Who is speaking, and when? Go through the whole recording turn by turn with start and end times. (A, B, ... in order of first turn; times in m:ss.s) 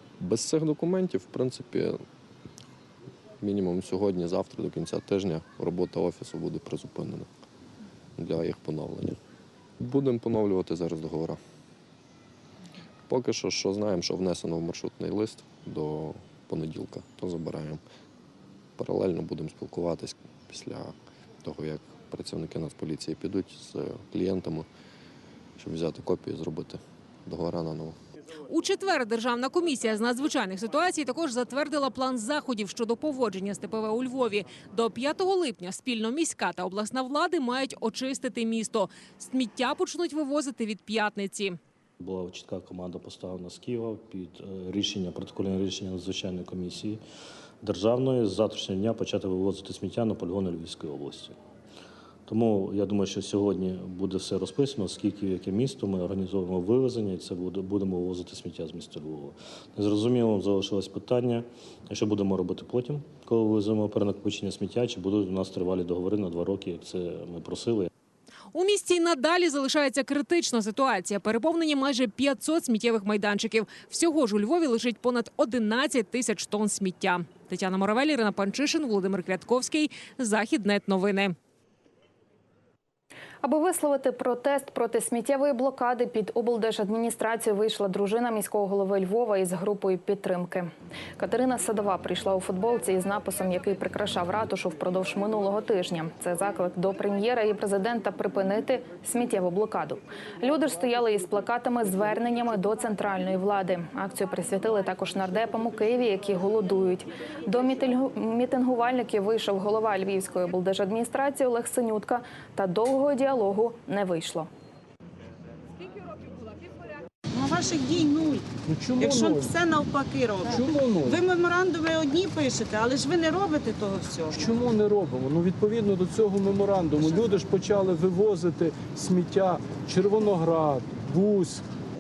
0:00.2-0:02.0 A
0:03.4-0:07.3 A
0:08.2-0:09.2 A
0:09.8-0:11.4 A
0:13.1-0:17.8 A
0:18.8-0:24.7 A
0:25.6-0:28.0 A
0:28.5-0:41.6 B
0:42.0-0:47.0 C
0:47.6-0:51.4 C
0:52.3-1:07.9 C
1:08.5-1:21.4 B
1:23.4-1:54.5 D
1:57.3-2:04.5 E
1:58.7-1:59.6 F
2:00.5-2:01.2 F
2:04.4-2:11.6 F